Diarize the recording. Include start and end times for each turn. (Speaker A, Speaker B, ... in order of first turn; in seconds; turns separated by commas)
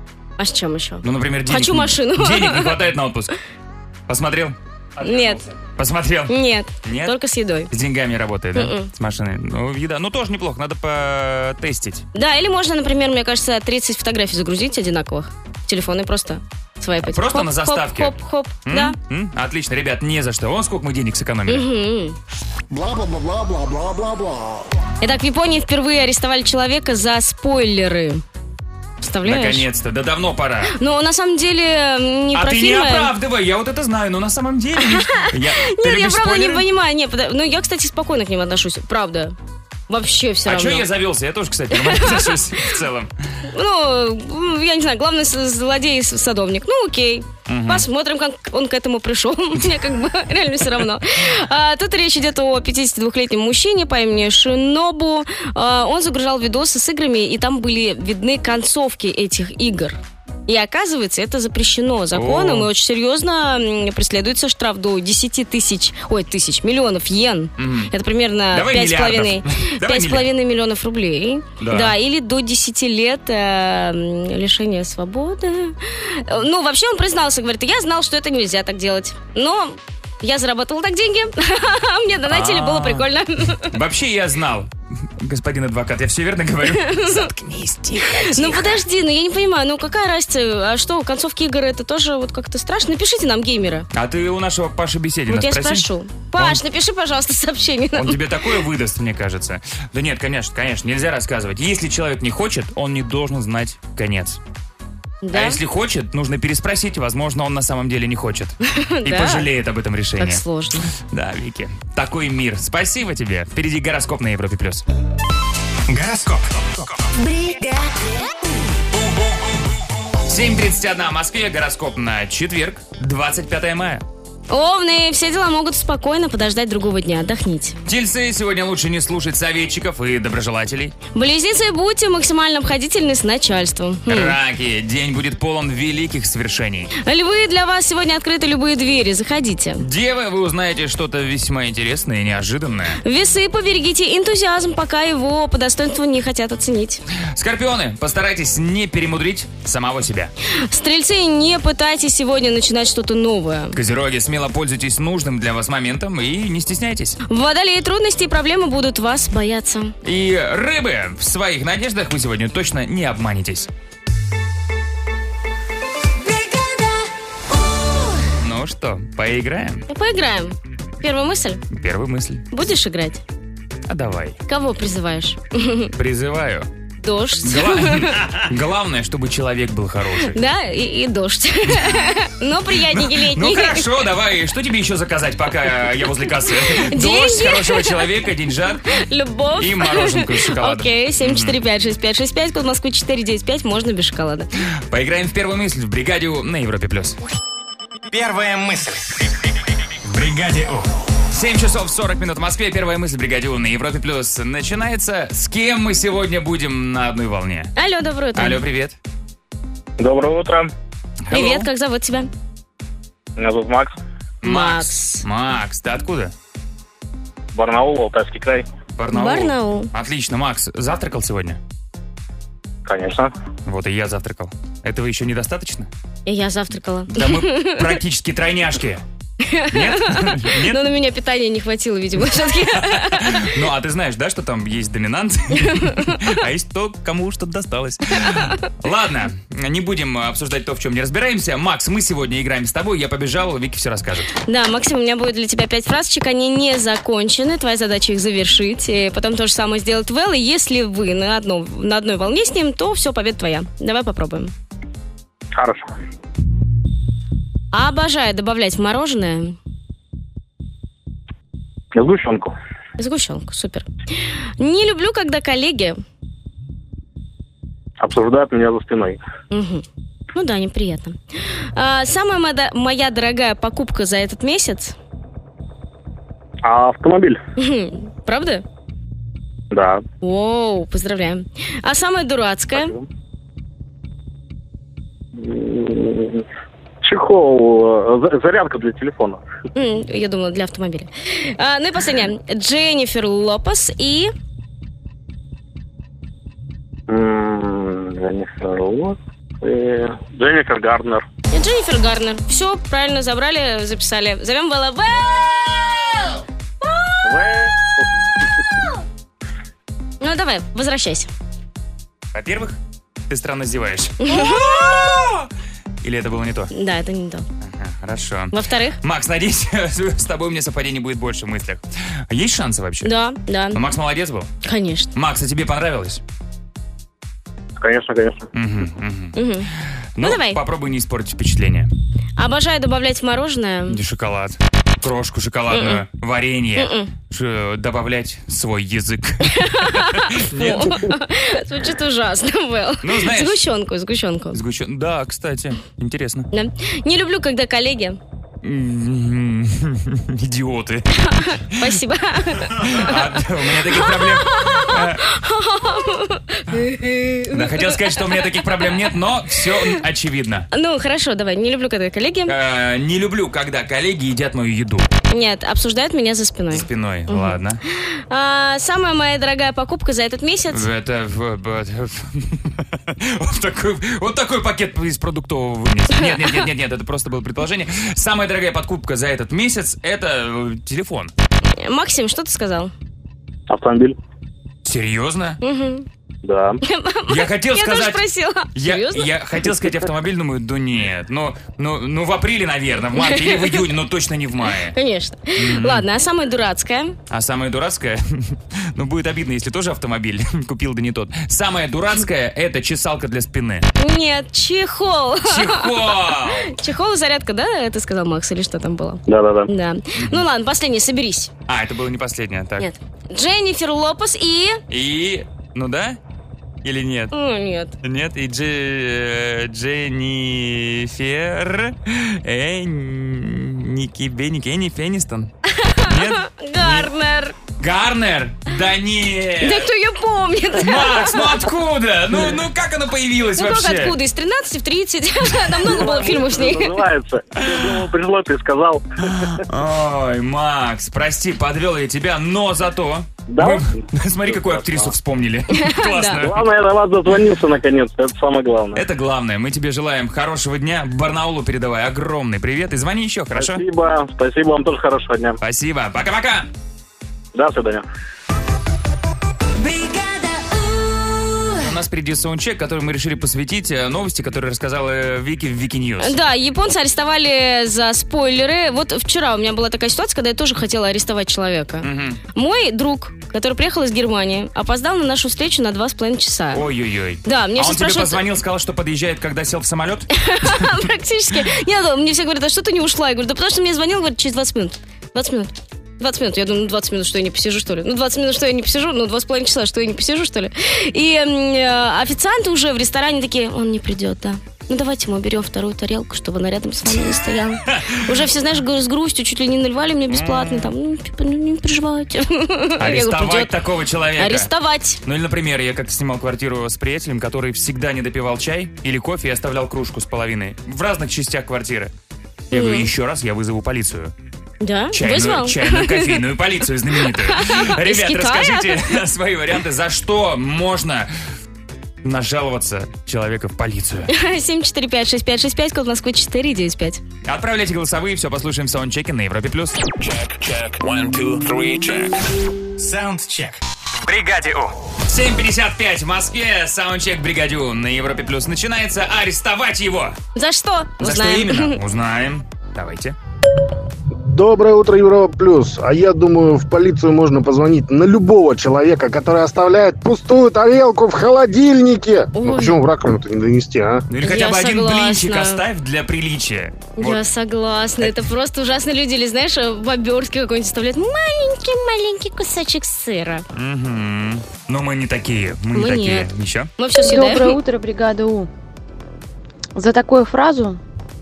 Speaker A: 0.4-2.8, Speaker B: 1.0-3.3, Speaker B: 4.1-6.3, Speaker A: 5.0-5.4, Speaker A: 6.3-7.7, Speaker B: 6.8-7.1, Speaker B: 7.7-12.0, Speaker A: 8.5-8.9, Speaker A: 12.1-18.9, Speaker B: 17.1-21.6, Speaker A: 21.5-22.2, Speaker A: 25.0-28.2, Speaker A: 29.0-29.6, Speaker B: 29.2-30.7, Speaker A: 30.7-33.1, Speaker B: 32.3-36.6, Speaker A: 34.8-39.3, Speaker A: 39.9-40.8, Speaker B: 40.5-43.1, Speaker A: 41.7-42.4, Speaker A: 43.5-83.7, Speaker B: 47.5-47.9, Speaker B: 62.1-62.7, Speaker B: 67.6-67.9, Speaker B: 68.5-70.2, Speaker B: 71.6-71.9, Speaker B: 82.3-83.1, Speaker B: 83.6-87.2, Speaker A: 86.7-87.3, Speaker A: 88.2-93.9, Speaker B: 93.9-96.6, Speaker A: 95.3-98.2, Speaker B: 97.9-104.4, Speaker A: 105.2-105.6, Speaker B: 105.3-114.8, Speaker A: 108.7-109.5, Speaker A: 110.2-110.9, Speaker C: 115.9-116.9, Speaker B: 120.3-124.0, Speaker A: 124.5-127.8, Speaker B: 127.8-130.9, Speaker A: 131.1-134.3, Speaker B: 134.1-136.9, Speaker A: 137.0-139.8, Speaker B: 139.8-143.0, Speaker A: 143.0-147.0, Speaker B: 147.3-150.3, Speaker A: 150.5-153.8, Speaker B: 153.7-157.2, Speaker A: 157.3-159.9, Speaker B: 160.0-163.7, Speaker B: 168.4-169.8, Speaker A: 169.9-171.6, Speaker B: 171.7-172.5, Speaker A: 172.5-173.2, Speaker B: 173.9-174.4, Speaker A: 174.5-175.9, Speaker B: 175.9-176.7, Speaker A: 177.0-178.2, Speaker B: 177.4-180.4, Speaker A: 180.3-183.9, Speaker B: 182.7-188.8, Speaker A: 186.5-188.0, Speaker A: 188.9-194.5, Speaker B: 189.6-191.6, Speaker B: 194.9-197.2, Speaker C: 198.1-199.3, Speaker C: 200.1-200.9, Speaker B: 201.3-207.7, Speaker A: 207.8-208.6, Speaker B: 208.3-209.0, Speaker D: 210.0-210.7, Speaker B: 211.3-211.7, Speaker A: 211.3-212.3, Speaker D: 213.4-213.9, Speaker B: 214.4-216.3, Speaker A: 214.4-215.2, Speaker D: 217.5-218.6, Speaker B: 218.9-221.6, Speaker A: 219.1-219.9, Speaker D: 222.8-223.3, Speaker B: 223.7-225.9, Speaker A: 226.2-228.0, Speaker B: 227.1-229.0, Speaker A: 229.4-233.4, Speaker B: 229.7-230.8, Speaker B: 232.3-244.3, Speaker A: 235.7-236.2, Speaker A: 238.2-238.6, Speaker A: 244.4-254.5, Speaker D: 255.6-255.9, Speaker A: 257.7-259.6, Speaker D: 261.9-262.5, Speaker A: 263.0-263.9, Speaker A: 264.6-266.0, Speaker D: 268.0-269.2, Speaker A: 269.5-274.9, Speaker D: 276.6-277.4, Speaker A: 277.6-278.6, Speaker D: 279.7-280.0, Speaker A: 280.2-282.9, Speaker D: 282.7-283.0, Speaker D: 285.4-286.4, Speaker D: 287.0-289.4, Speaker A: 289.7-294.3, Speaker D: 297.1-301.2, Speaker A: 301.5-306.4, Speaker D: 307.2-308.1, Speaker A: 310.2-311.3, Speaker B: 312.3-312.8, Speaker B: 313.3-315.5, Speaker A: 314.2-314.9, Speaker B: 316.0-316.7, Speaker A: 316.7-317.4, Speaker B: 317.6-323.1, Speaker A: 318.5-319.0, Speaker A: 323.0-323.8, Speaker B: 323.7-324.5, Speaker A: 324.6-325.1, Speaker B: 325.1-326.2, Speaker D: 327.8-328.5, Speaker B: 328.5-329.4, Speaker A: 329.4-329.7, Speaker B: 330.1-331.9, Speaker A: 330.2-330.6, Speaker A: 332.4-334.0, Speaker B: 333.9-341.1, Speaker A: 335.7-336.0, Speaker A: 336.8-337.1, Speaker A: 339.5-344.6, Speaker B: 343.0-343.6, Speaker B: 344.5-346.5, Speaker A: 346.5-348.2, Speaker B: 348.6-352.0, Speaker A: 351.2-358.9, Speaker B: 352.7-355.2, Speaker B: 357.5-360.7, Speaker A: 360.7-362.5, Speaker B: 362.5-365.1, Speaker A: 365.3-370.8, Speaker B: 366.7-367.8, Speaker B: 370.7-381.3, Speaker A: 376.2-376.6, Speaker A: 381.8-382.9, Speaker D: 383.7-384.2, Speaker B: 384.8-385.6, Speaker A: 385.6-386.1, Speaker D: 386.4-386.8, Speaker A: 386.8-389.3, Speaker B: 387.3-388.2, Speaker B: 388.7-394.9, Speaker A: 393.1-393.8, Speaker A: 394.9-397.1, Speaker B: 395.6-396.1, Speaker B: 397.3-403.9, Speaker A: 404.0-411.5, Speaker B: 405.4-406.8, Speaker D: 409.3-409.7, Speaker B: 410.2-410.4, Speaker B: 411.7-412.9, Speaker A: 412.8-414.8, Speaker B: 414.9-416.2, Speaker B: 416.8-417.3, Speaker A: 417.3-417.9, Speaker B: 418.0-425.5, Speaker A: 425.7-427.6, Speaker B: 426.0-427.1, Speaker B: 427.8-429.9, Speaker A: 429.6-431.6, Speaker B: 430.8-434.1, Speaker A: 433.6-437.0, Speaker B: 435.7-436.1, Speaker D: 435.9-439.5, Speaker B: 437.6-438.1, Speaker B: 439.3-446.6, Speaker D: 443.5-445.1, Speaker A: 445.8-446.4, Speaker D: 446.4-449.0, Speaker B: 448.9-453.8, Speaker D: 453.5-455.6, Speaker B: 455.6-456.7, Speaker D: 457.5-458.0, Speaker E: 459.8-461.7, Speaker B: 461.8-466.4, Speaker A: 466.2-476.8, Speaker B: 472.0-472.4, Speaker B: 476.7-481.0, Speaker A: 477.4-478.4, Speaker A: 480.3-503.7, Speaker B: 497.9-498.4, Speaker B: 500.3-500.9, Speaker B: 503.0-504.7, Speaker A: 504.4-505.2, Speaker B: 505.2-512.1, Speaker B: 512.7-514.3, Speaker A: 512.7-513.1, Speaker A: 514.8-516.4, Speaker B: 515.1-521.3, Speaker A: 517.1-519.1, Speaker B: 522.2-524.3, Speaker A: 524.3-527.2, Speaker B: 527.4-530.1, Speaker C: 530.5-532.1, Speaker B: 531.0-532.2, Speaker C: 533.0-534.9, Speaker B: 535.3-540.4, Speaker A: 540.5-542.0, Speaker B: 541.2-543.4, Speaker F: 544.3-554.2, Speaker A: 552.5-552.9, Speaker B: 554.3-557.4, Speaker A: 554.4-555.8, Speaker A: 557.2-563.6, Speaker B: 563.7-566.9, Speaker A: 565.9-567.8, Speaker E: 567.2-568.7, Speaker E: 569.9-571.0